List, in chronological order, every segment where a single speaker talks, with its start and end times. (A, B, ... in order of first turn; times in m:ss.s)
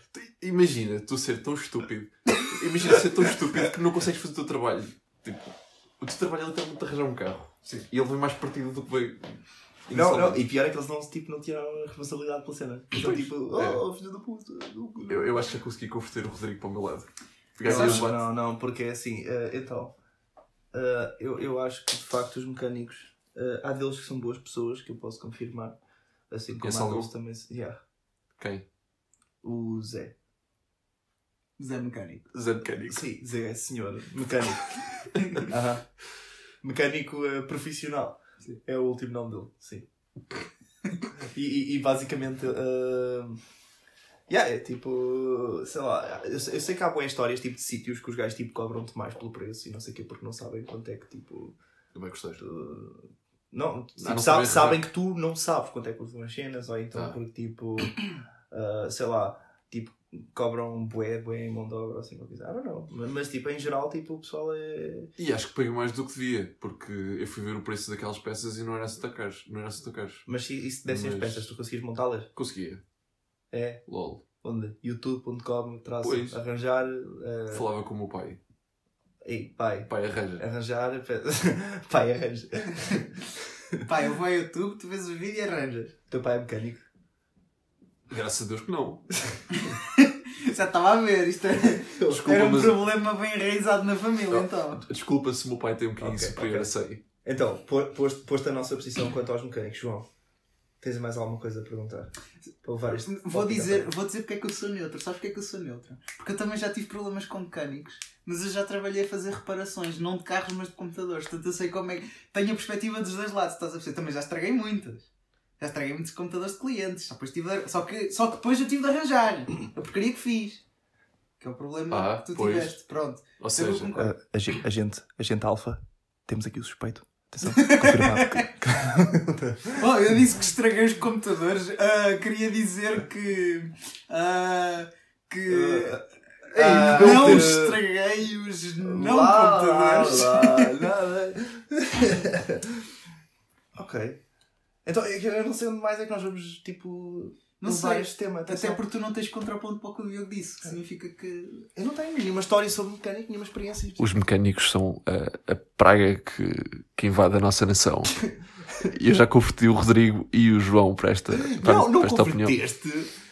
0:00.1-0:10.4 A
0:09.9-0:15.4 B
0:12.9-0:13.8 A
0:15.1-0:18.2 A
0:17.6-0:19.9 B
0:17.6-0:18.0 C
0:20.7-0:25.8 B
0:26.3-0:27.8 B
0:26.6-0:27.1 A
0:28.4-0:28.6 A
0:29.4-0:30.1 B
0:31.6-0:32.2 C
0:32.3-0:33.1 A
0:32.8-0:34.7 B
0:35.4-0:35.9 B
0:36.6-0:39.9 B
0:41.2-0:43.4 B
0:44.3-0:51.6 B
0:51.9-0:52.4 A
0:52.4-1:05.1 B
0:54.0-0:54.8 A
1:05.2-1:10.3 A
1:10.3-1:12.3 B
1:10.8-1:11.5 A
1:12.4-1:12.8 A
1:13.5-1:13.8 B
1:13.9-1:14.2 A
1:14.4-1:17.7 B
1:16.0-1:16.4 A
1:17.5-1:18.4 A
1:19.2-1:23.8 B
1:19.9-1:20.4 A
1:23.9-1:26.0 C
1:26.1-1:26.9 B
1:28.1-1:29.0 A
1:29.5-1:34.8 C
1:31.8-1:32.3 B
1:32.1-1:32.9 A
1:34.3-1:37.0 A
1:36.0-1:36.7 B
1:37.2-1:40.1 B
1:40.8-1:43.9 B
1:43.0-2:00.6 C
2:01.4-2:04.1 C
2:01.9-2:02.8 A
2:03.4-2:04.0 A
2:04.0-2:09.8 B
2:07.4-2:08.5 C
2:09.8-2:20.9 C
2:15.5-2:17.8 B
2:16.6-2:17.5 A
2:18.8-2:22.9 B
2:23.8-2:24.2 B
2:24.8-2:28.8 B
2:27.6-2:31.7 C
2:31.8-2:34.1 B
2:34.0-2:38.3 A
2:38.8-2:42.6 A
2:41.4-2:43.1 B